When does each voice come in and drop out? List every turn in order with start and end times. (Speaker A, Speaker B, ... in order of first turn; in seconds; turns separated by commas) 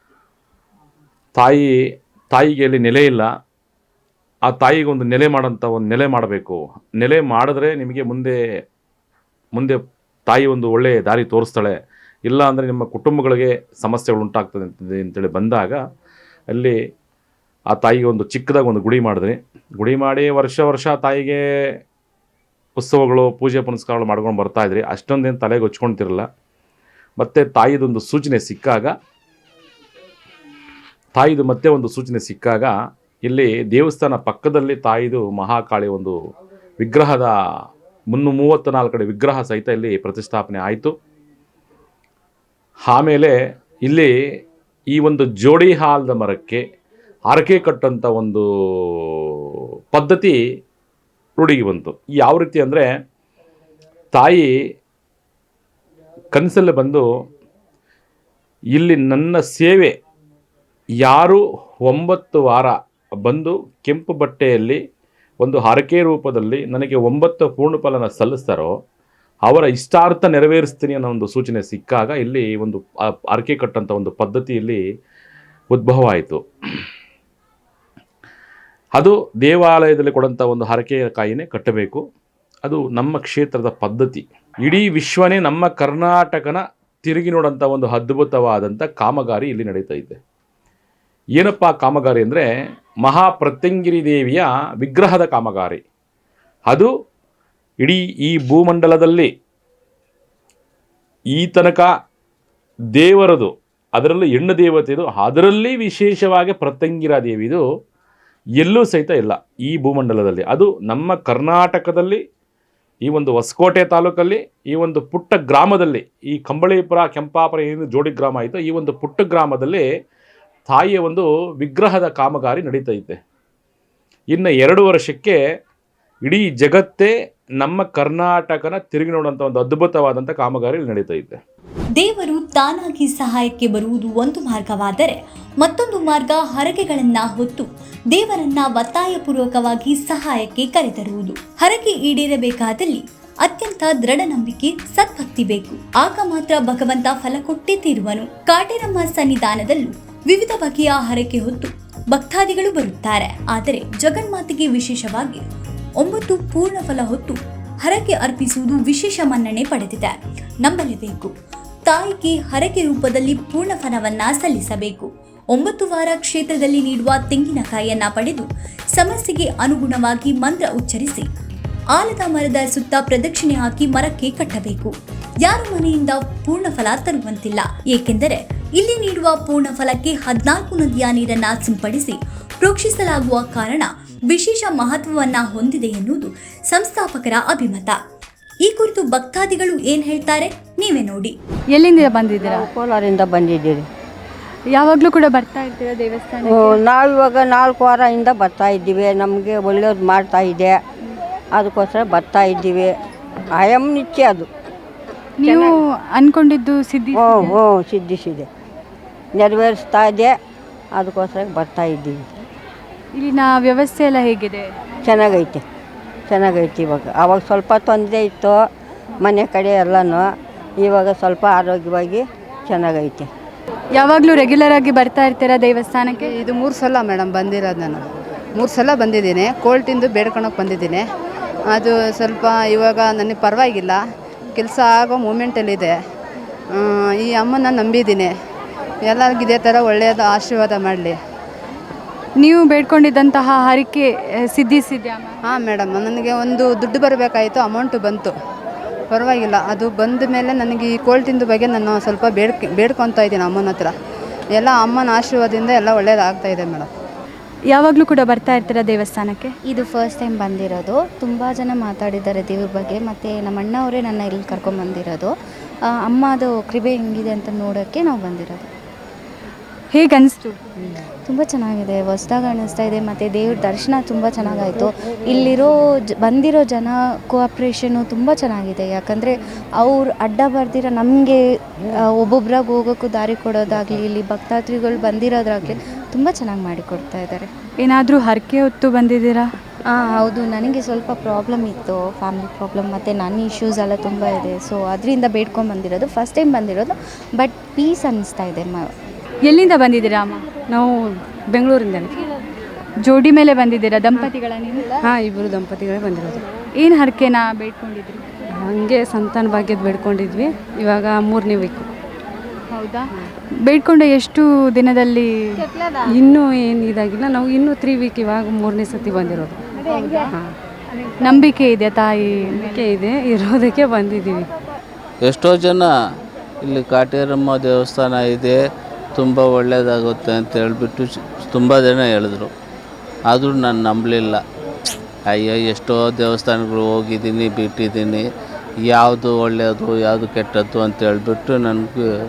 Speaker A: 1.4-1.7, Speaker A: 2.3-3.3, Speaker A: 4.4-8.4, Speaker A: 9.5-15.8, Speaker A: 16.5-16.8, Speaker A: 17.7-21.7, Speaker A: 22.8-26.2, Speaker A: 27.2-28.9, Speaker A: 31.1-36.2, Speaker A: 36.8-37.3, Speaker A: 38.1-40.9, Speaker A: 42.9-44.1, Speaker A: 44.9-46.6, Speaker A: 47.3-50.4, Speaker A: 51.4-52.9, Speaker A: 54.1-54.5, Speaker A: 56.3-57.0, Speaker A: 58.7-59.9, Speaker A: 61.0-64.8, Speaker A: 65.4-68.7, Speaker A: 69.4-74.8, Speaker A: 75.7-76.4, Speaker A: 79.0-82.0, Speaker A: 82.6-90.2, Speaker A: 91.3-92.5, Speaker A: 93.0-95.8, Speaker A: 97.8-99.3, Speaker A: 101.3-101.9, Speaker A: 103.0-107.6, Speaker A: 108.6-112.2, Speaker A: 113.0-119.8, Speaker A: 120.7-123.2, Speaker A: 124.3-125.4, Speaker A: 126.2-131.4, Speaker B: 131.9-155.4, Speaker B: 156.0-161.3, Speaker B: 161.8-171.3, Speaker B: 171.9-188.0, Speaker B: 188.6-191.3, Speaker C: 191.7-192.7, Speaker D: 192.4-193.8, Speaker C: 194.7-196.8, Speaker D: 196.4-200.8, Speaker D: 201.5-203.0, Speaker D: 203.5-204.5, Speaker C: 205.4-207.6, Speaker D: 205.4-205.7, Speaker D: 207.1-208.5, Speaker D: 209.3-210.4, Speaker D: 210.9-212.2, Speaker C: 213.2-214.7, Speaker D: 215.0-215.6, Speaker D: 216.3-218.7, Speaker D: 219.2-223.3, Speaker C: 223.9-226.3, Speaker E: 226.3-228.0, Speaker E: 228.6-231.0, Speaker E: 231.7-234.0, Speaker E: 234.6-235.9, Speaker E: 236.8-238.3, Speaker E: 239.0-241.1, Speaker C: 242.4-245.3, Speaker E: 245.5-248.3, Speaker E: 249.1-253.9, Speaker E: 254.6-256.9, Speaker C: 257.7-259.5, Speaker F: 259.7-265.3, Speaker F: 266.1-268.7, Speaker C: 269.9-270.6, Speaker F: 271.3-281.4, Speaker F: 282.1-287.5, Speaker C: 287.8-289.4, Speaker F: 289.9-298.9, Speaker C: 299.4-300.4, Speaker G: 300.7-302.1, Speaker C: 303.1-304.9, Speaker G: 305.1-306.4, Speaker C: 306.8-308.3, Speaker G: 308.6-311.9, Speaker C: 312.7-313.1, Speaker C: 313.6-315.6, Speaker G: 316.1-320.5, Speaker C: 321.2-322.7, Speaker G: 322.6-324.4, Speaker H: 325.2-325.9, Speaker H: 326.6-328.6, Speaker H: 329.1-332.5, Speaker H: 333.3-334.4, Speaker H: 335.2-338.2, Speaker H: 338.8-342.0